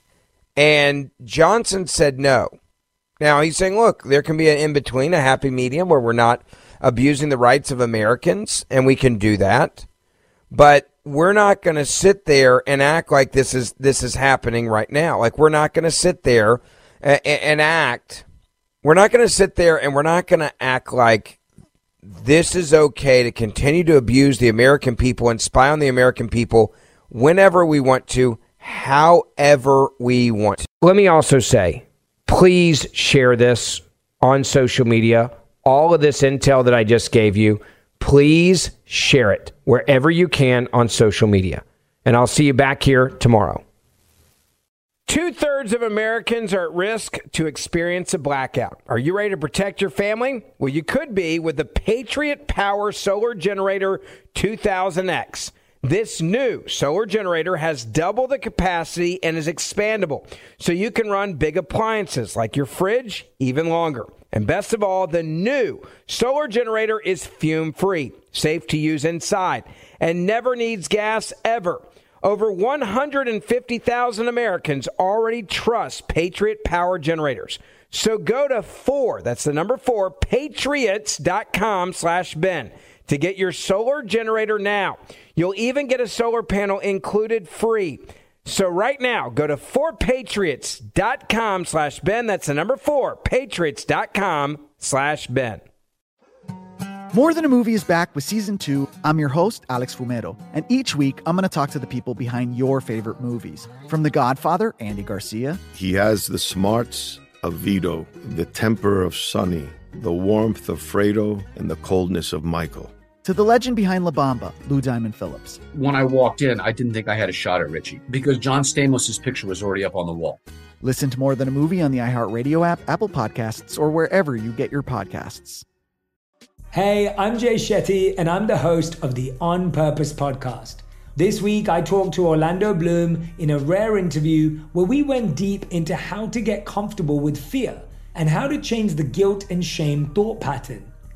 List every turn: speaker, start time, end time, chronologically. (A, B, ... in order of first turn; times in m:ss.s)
0:00.6-0:02.5 A
0:03.2-0:09.8 A
0:10.5-0:18.2 A
0:18.8-0:21.4 A
0:22.0-0:43.6 A
0:45.1-1:35.6 A
1:37.1-1:45.6 B
1:45.7-1:52.9 C
1:53.2-1:55.6 B
1:55.7-2:00.4 D
2:00.8-2:05.6 B
2:06.7-2:20.9 E